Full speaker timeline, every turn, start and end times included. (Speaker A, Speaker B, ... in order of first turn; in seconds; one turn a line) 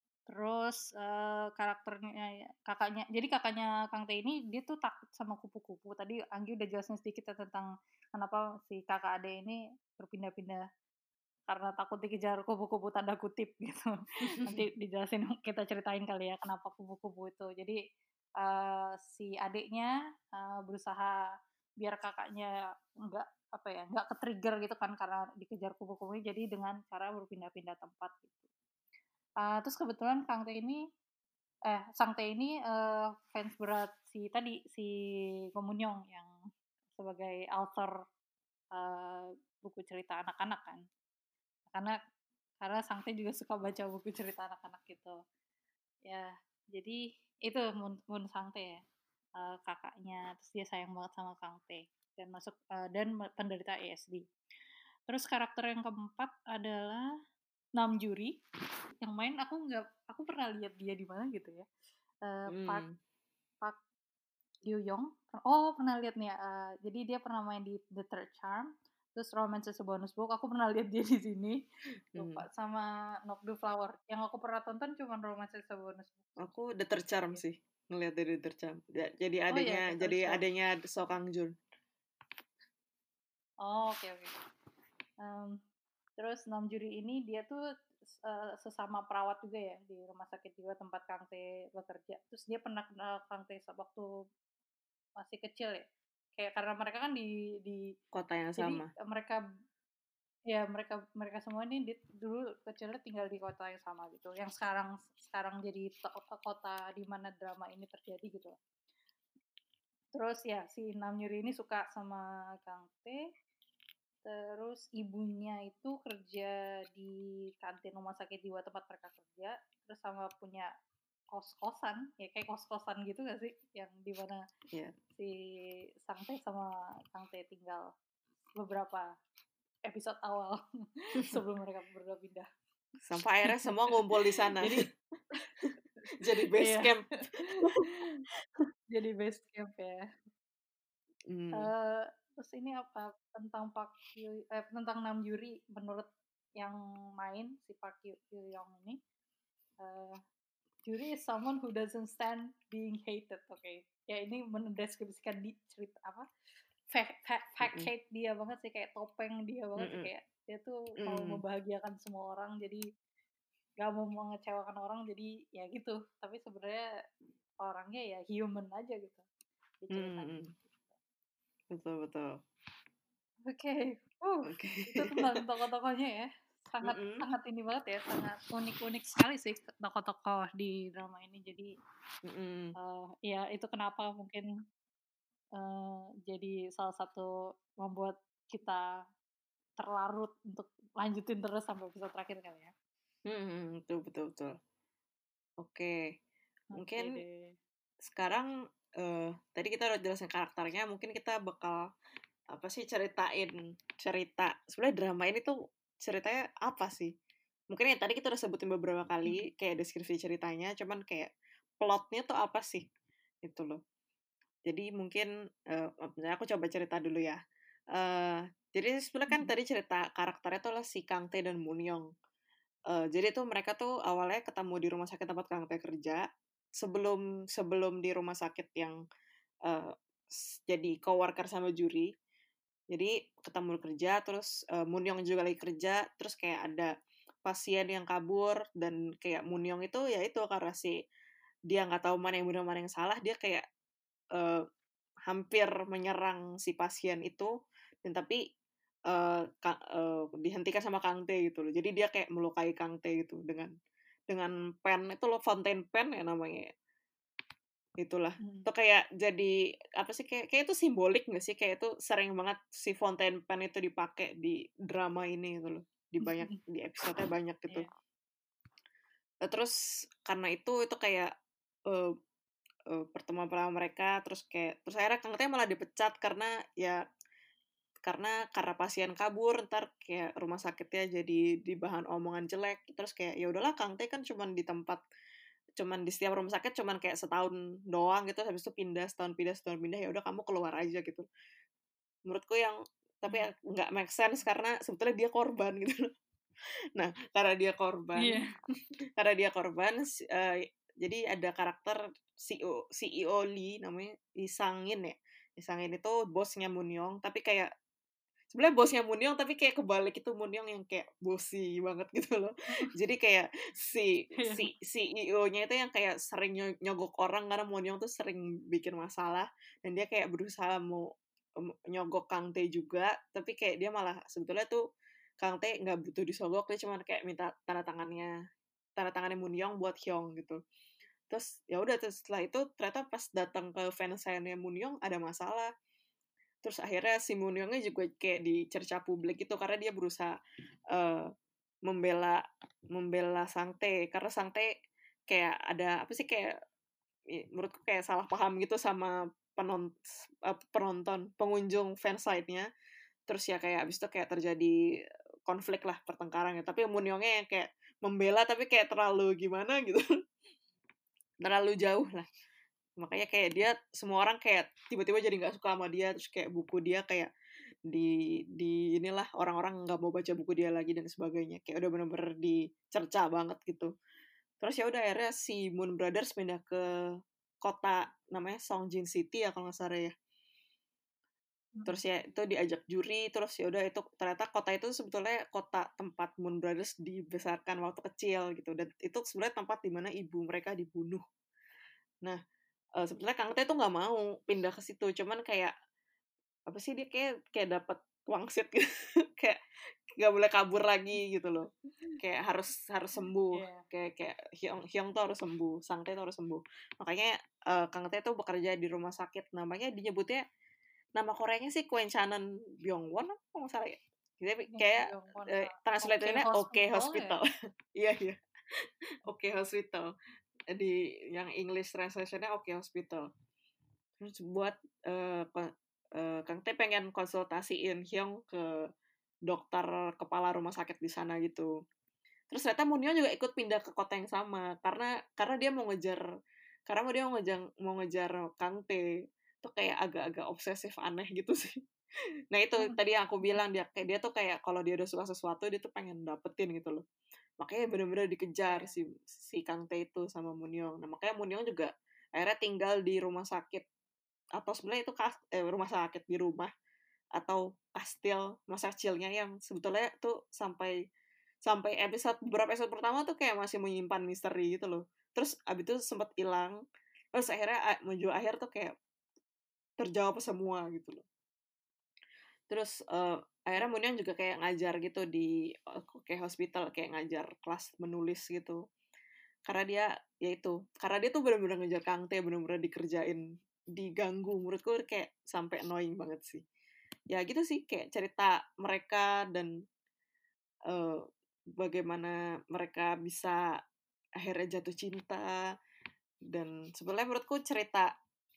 Speaker A: 0.3-10.6
Speaker A: 11.5-13.9
Speaker B: 14.2-14.6
Speaker A: 14.4-17.8
Speaker A: 18.4-21.1
Speaker A: 21.8-22.5
Speaker A: 23.1-28.4
Speaker A: 29.4-30.8
Speaker A: 31.7-34.9
Speaker A: 35.5-36.3
Speaker A: 37.0-37.9
Speaker A: 38.8-40.8
Speaker A: 42.6-45.1
Speaker A: 46.0-48.8
Speaker A: 49.4-54.2
Speaker A: 55.1-57.0
Speaker A: 57.8-58.3
Speaker A: 59.0-61.6
Speaker A: 62.2-62.8
Speaker B: 62.5-63.0
Speaker A: 64.7-71.6
Speaker B: 72.1-72.4
Speaker A: 72.2-76.3
Speaker B: 76.4-81.5
Speaker A: 79.5-80.4
Speaker A: 83.6-84.3
Speaker A: 85.2-85.6
Speaker A: 86.2-87.6
Speaker A: 88.2-94.1
Speaker A: 95.2-95.8
Speaker A: 96.3-97.9
Speaker B: 98.1-98.9
Speaker A: 98.6-99.4
Speaker A: 100.5-108.5
Speaker A: 110.2-113.2
Speaker A: 114.2-120.7
Speaker A: 121.3-124.4
Speaker A: 125.2-127.9
Speaker A: 128.6-129.1
Speaker A: 129.9-132.5
Speaker B: 133.0-134.8
Speaker A: 133.6-133.9
Speaker A: 134.6-135.4
Speaker B: 136.2-137.8
Speaker A: 136.2-138.2
Speaker A: 138.9-140.0
Speaker B: 141.3-141.7
Speaker A: 141.5-146.1
Speaker A: 146.6-149.0
Speaker A: 149.8-150.2
Speaker A: 150.8-156.2
Speaker A: 156.9-162.8
Speaker B: 157.6-157.9
Speaker B: 159.8-160.1
Speaker B: 161.0-161.4
Speaker A: 163.8-166.8
Speaker A: 167.6-169.2
Speaker A: 169.8-170.8
Speaker B: 169.9-170.5
Speaker B: 171.7-172.3
Speaker A: 173.5-181.7
Speaker B: 174.5-175.4
Speaker B: 176.8-177.2
Speaker B: 182.2-182.7
Speaker A: 182.8-184.4
Speaker A: 185.6-187.3
Speaker A: 187.8-188.8
Speaker A: 189.8-192.7
Speaker B: 193.2-194.5
Speaker B: 195.6-196.0
Speaker A: 196.7-197.6
Speaker B: 196.8-197.2
Speaker B: 198.0-198.5
Speaker B: 199.0-201.8
Speaker B: 202.5-207.1
Speaker B: 207.7-211.3
Speaker B: 211.8-212.8
Speaker B: 213.4-213.8
Speaker B: 214.7-217.4
Speaker B: 217.9-222.1
Speaker B: 222.9-226.2
Speaker B: 226.8-229.0
Speaker B: 229.7-232.1
Speaker B: 232.9-236.9
Speaker B: 237.4-240.9
Speaker B: 241.7-243.6
Speaker B: 244.3-244.6
Speaker B: 245.3-247.5
Speaker B: 248.1-248.4
Speaker B: 249.1-253.7
Speaker B: 254.3-256.7
Speaker B: 258.0-267.9
Speaker A: 258.4-258.7
Speaker A: 266.2-266.6
Speaker B: 269.4-269.7
Speaker B: 270.2-271.3
Speaker B: 272.9-277.0
Speaker B: 278.0-285.0
Speaker B: 285.8-291.2
Speaker B: 292.3-296.0
Speaker B: 296.9-298.4
Speaker A: 298.2-298.5
Speaker B: 299.2-307.7
Speaker B: 308.5-321.1
Speaker A: 314.4-314.7
Speaker B: 321.6-324.8
Speaker B: 325.4-328.3
Speaker B: 329.0-330.6
Speaker B: 331.3-335.7
Speaker B: 336.6-340.4
Speaker B: 340.9-341.3
Speaker B: 341.9-342.4
Speaker B: 342.9-344.7
Speaker B: 345.3-346.5
Speaker B: 347.3-352.7
Speaker B: 353.3-354.7
Speaker B: 355.5-360.0
Speaker B: 361.4-362.3
Speaker B: 363.0-367.3
Speaker B: 367.9-373.9
Speaker B: 374.6-376.8
Speaker B: 377.6-380.1
Speaker A: 381.7-382.0
Speaker B: 381.8-391.2
Speaker B: 393.0-395.7
Speaker B: 396.7-398.8
Speaker B: 400.1-401.7
Speaker B: 402.2-410.4
Speaker A: 403.5-403.8
Speaker B: 411.1-418.4
Speaker A: 414.7-417.4
Speaker B: 419.3-420.1
Speaker B: 420.7-423.3
Speaker B: 424.2-428.8
Speaker B: 429.5-431.7
Speaker B: 432.5-436.2
Speaker B: 436.9-439.1
Speaker B: 439.6-441.8
Speaker B: 442.5-447.0
Speaker A: 442.8-443.6
Speaker B: 447.6-453.9
Speaker A: 448.7-448.9
Speaker B: 454.6-456.7
Speaker B: 457.4-460.9
Speaker B: 461.6-466.8
Speaker B: 467.3-468.9
Speaker B: 470.0-471.2
Speaker B: 472.7-478.8
Speaker B: 479.7-483.4
Speaker B: 483.9-486.6
Speaker B: 487.3-489.7
Speaker B: 490.9-491.2
Speaker B: 491.8-493.7
Speaker B: 494.4-495.6
Speaker B: 496.5-498.1